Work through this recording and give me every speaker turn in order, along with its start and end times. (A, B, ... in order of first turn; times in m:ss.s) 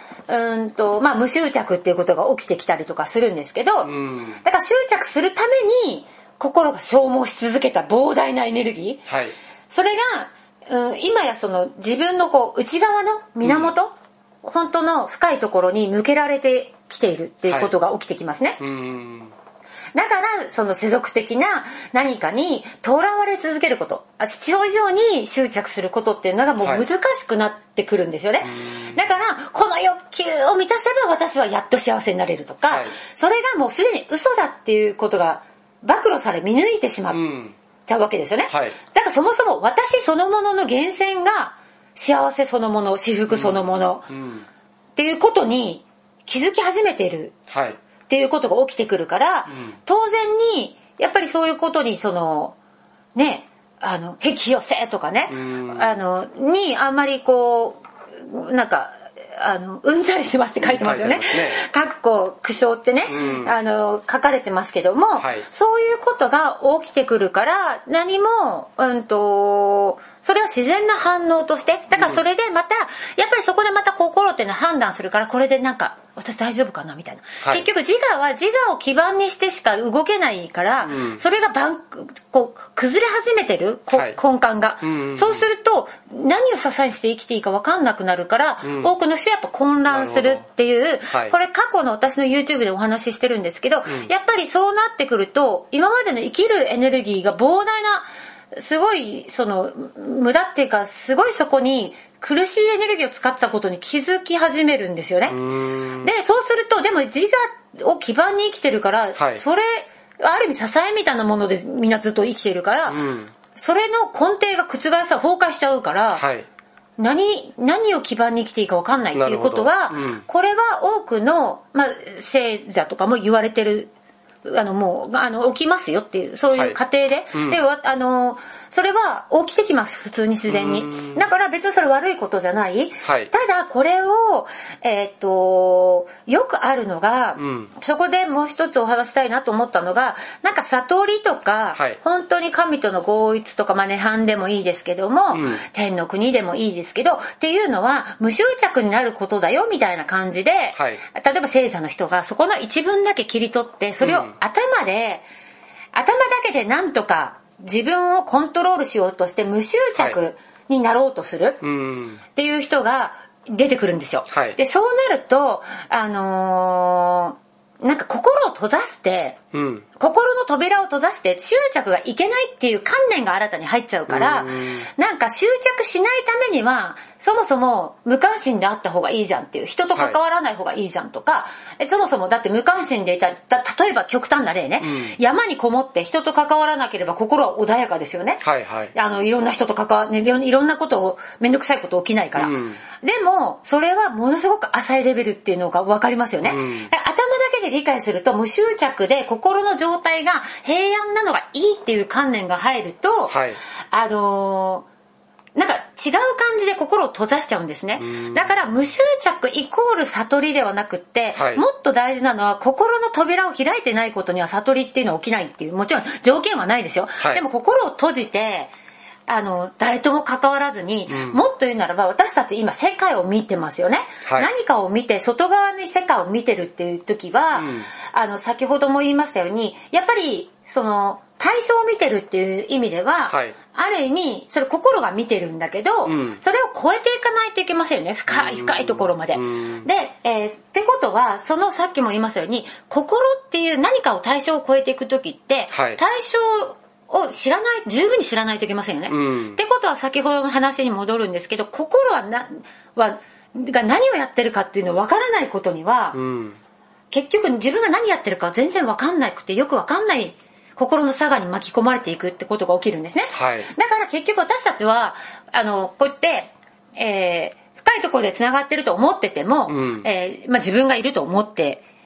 0:00.3-0:09.1 A
0:03.8-0:04.4 B
0:09.1-0:09.3 B
0:09.7-0:13.9 A
0:13.4-0:13.7 B
0:14.4-0:18.6 A
0:17.5-0:17.7 B
0:18.6-0:19.3 B
0:19.9-0:37.2 A
0:28.4-0:29.0 B
0:32.7-0:32.9 B
0:37.1-0:37.5 B
0:37.8-0:44.1 A
0:38.5-0:38.8 B
0:43.3-0:44.4 B
0:45.0-0:47.3 A
0:47.5-0:47.8 B
0:48.1-0:52.6 A
0:49.5-0:49.7 B
0:53.1-1:45.4 A
0:55.3-0:55.9 B
1:00.6-1:01.6 B
1:03.1-1:03.5 B
1:05.2-1:05.5 B
1:12.0-1:12.2 B
1:20.8-1:21.2 B
1:24.8-1:25.4 B
1:28.6-1:28.9 B
1:29.9-1:30.4 B
1:31.1-1:31.3 B
1:45.3-1:46.1 B
1:46.0-1:56.2 A
1:49.2-1:49.4 B
1:52.9-1:53.3 B
1:56.1-1:56.5 B
1:57.0-2:03.9 A
1:59.1-2:00.2 B
2:04.4-2:35.2 A
2:06.5-2:06.8 B
2:07.3-2:07.6 B
2:10.5-2:11.2 B
2:13.0-2:13.3 B
2:17.4-2:17.7 B
2:25.3-2:25.6 B
2:30.7-2:31.0 B
2:34.0-2:34.3 B
2:35.9-2:41.6 A
2:41.6-2:42.2 B
2:42.3-2:49.4 A
2:44.3-2:44.6 B
2:49.5-2:49.8 B
2:50.0-3:08.4 A
2:54.1-2:54.9 B
3:04.8-3:05.2 B
3:08.4-3:08.9 B
3:08.9-3:23.4 A
3:12.3-3:12.8 B
3:16.4-3:16.9 B
3:23.3-3:23.6 B
3:23.9-3:24.8 A
3:25.6-3:38.7 A
3:28.0-3:28.5 B
3:31.3-3:31.6 B
3:39.3-4:16.2 A
3:41.1-3:41.4 B
3:44.2-3:44.5 B
3:47.5-3:47.9 B
3:53.3-3:53.5 B
3:56.0-3:56.4 B
3:58.3-3:59.9 B
4:05.7-4:06.0 B
4:09.1-4:09.6 B
4:16.1-4:16.6 B
4:17.1-4:31.8 A
4:23.3-4:23.7 B
4:29.7-4:30.1 B